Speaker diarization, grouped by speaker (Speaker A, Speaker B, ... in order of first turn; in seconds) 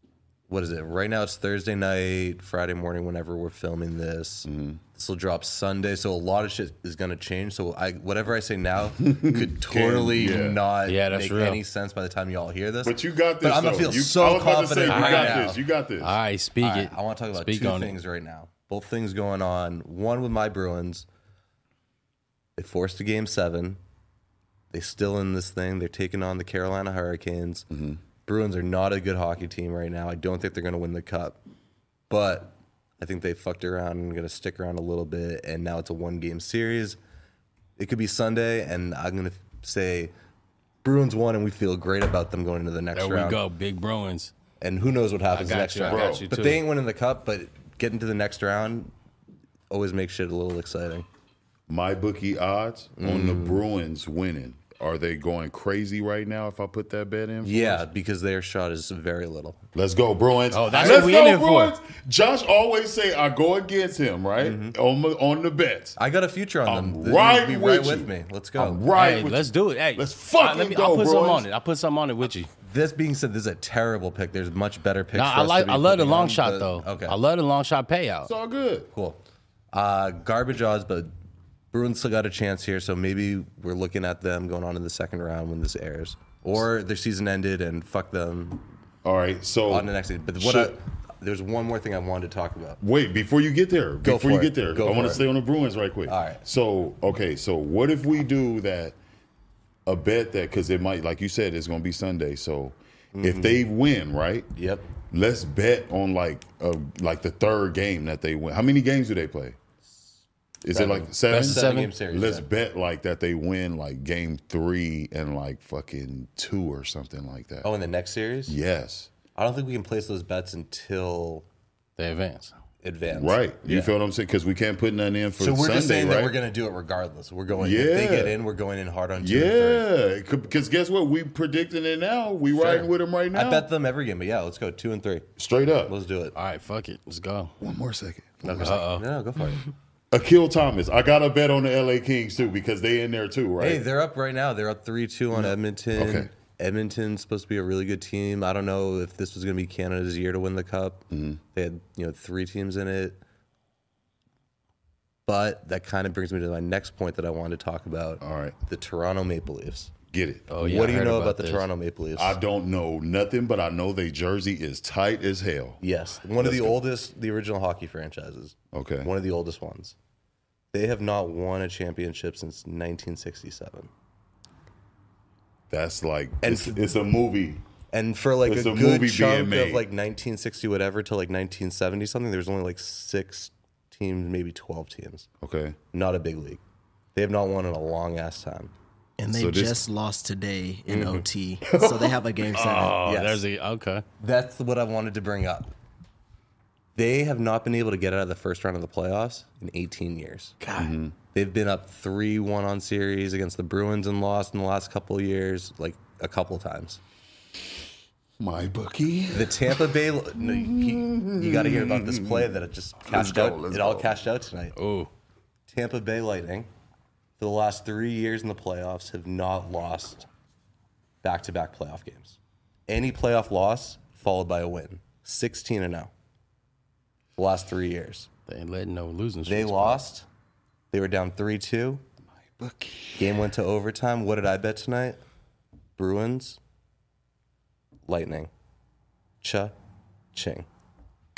Speaker A: 0.5-15.6, 16.6-21.1, 22.6-23.8, 24.7-27.7, 28.2-31.4, 32.1-37.0, 37.8-40.1, 40.8-43.4, 44.6-48.9, 49.7-51.1, 53.0-53.6, 57.4-59.6, 60.7-61.1, 64.4-64.8, 66.0-68.8, 72.6-77.2, 78.9-79.2, 79.7-81.1, 81.7-88.7, 89.7-92.8, 94.0-95.2, 96.0-96.4, 103.1-103.6, 104.5-104.9, 110.7-112.5, 117.6-118.6, 119.3-121.5, 122.8-123.9, 125.4-129.8, 132.5-135.3, 135.8-136.3, 138.4-139.7, 143.6-153.2, 155.2-159.9, 160.6-162.4, 165.8-169.9, 170.7-173.9, 176.4-176.9, 177.9-185.3, 185.9-186.6, 187.1-188.7, 190.9-191.2, 193.0-193.4, 194.2-195.7, 196.9-200.6, 201.3-207.0, 209.3-214.8, 215.7-216.7, 217.4-220.3, 221.2-226.1, 227.4-228.3, 229.4-230.2, 230.9-232.0, 233.2-235.2, 236.0-236.6, 238.1-238.5, 239.4-239.7, 240.3-240.7
Speaker B: 4.4-4.8, 9.0-10.6, 12.8-16.1, 27.7-28.0, 45.9-46.2, 51.7-57.9, 59.7-66.0, 66.7-71.5, 78.2-78.9, 89.0-90.8, 92.8-99.0, 99.8-104.5, 105.1-109.6, 110.6-117.7, 118.5-119.1, 123.1-126.4, 127.5-128.4, 129.2-133.7, 135.4-135.9, 137.6-138.8, 140.1-143.8, 145.3-146.3, 151.1-151.4, 158.2-158.6, 160.1-160.6, 162.2-165.8, 166.4-166.8, 168.7-169.1, 175.7-177.6, 178.4-179.8, 185.4-185.8, 189.3-189.8, 191.6-193.0, 200.8-201.1, 208.4-214.2, 232.4-233.5
Speaker C: 10.8-11.6, 14.9-15.5, 16.0-18.0, 42.9-44.3, 45.3-46.6, 60.5-61.7, 68.9-72.5, 75.1-78.3, 111.3-111.9, 122.0-122.5, 136.3-137.5, 138.6-139.0, 160.5-161.7, 192.7-194.0, 200.6-200.9, 214.8-215.1, 228.5-230.0
Speaker D: 189.2-193.0